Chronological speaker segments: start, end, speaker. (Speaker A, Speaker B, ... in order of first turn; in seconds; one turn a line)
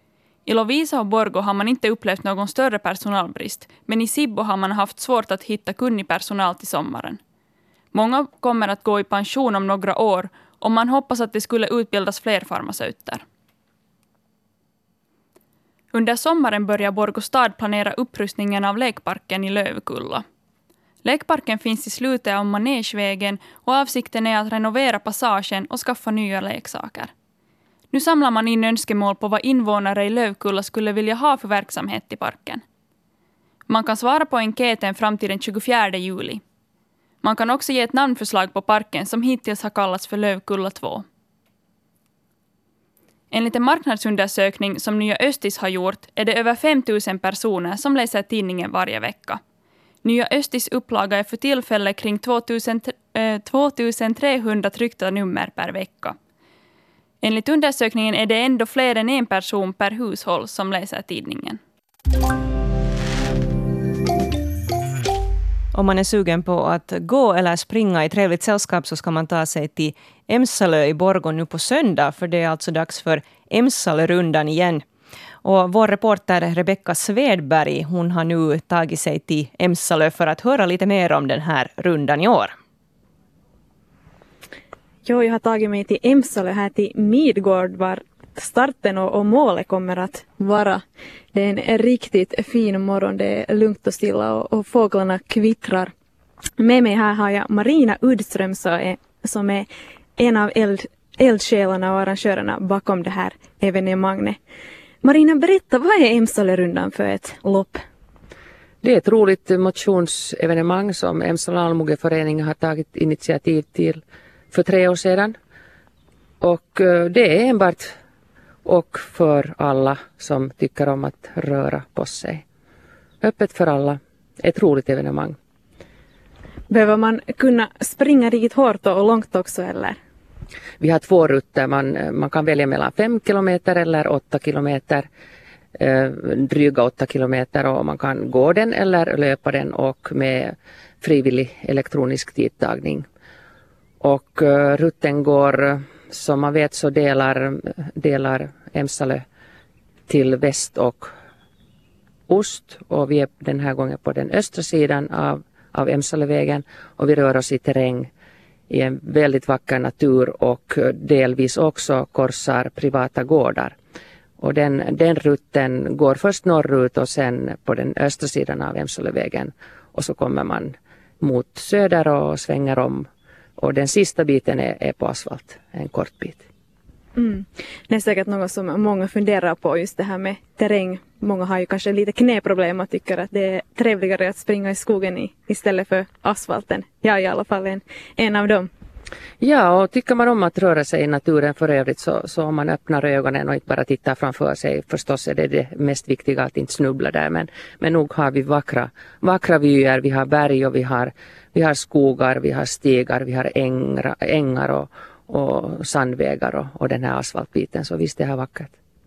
Speaker A: 0.5-7.2
Speaker A: 7.9-13.2
Speaker A: 15.9-20.2
Speaker A: 21.0-27.1
Speaker A: 27.9-32.6
Speaker A: 33.7-36.4
Speaker A: 37.2-41.0
Speaker A: 43.3-49.4
Speaker A: 50.0-56.2
Speaker A: 57.2-61.6
Speaker B: 65.7-74.8
Speaker B: 75.4-82.5
Speaker C: 85.0-90.8
Speaker C: 91.3-95.9
Speaker C: 96.6-104.4
Speaker C: 105.0-107.8
Speaker D: 108.8-114.0
Speaker D: 114.5-115.4
Speaker D: 116.4-118.0
Speaker D: 118.7-122.4
Speaker D: 123.2-125.4
Speaker C: 126.7-130.0
Speaker D: 130.8-135.1
Speaker D: 135.8-143.1
Speaker D: 144.0-149.2
Speaker D: 150.1-151.1
Speaker D: 152.3-158.1
Speaker D: 158.7-163.8
Speaker D: 164.4-176.4
Speaker C: 177.2-188.7
Speaker D: 189.4-208.7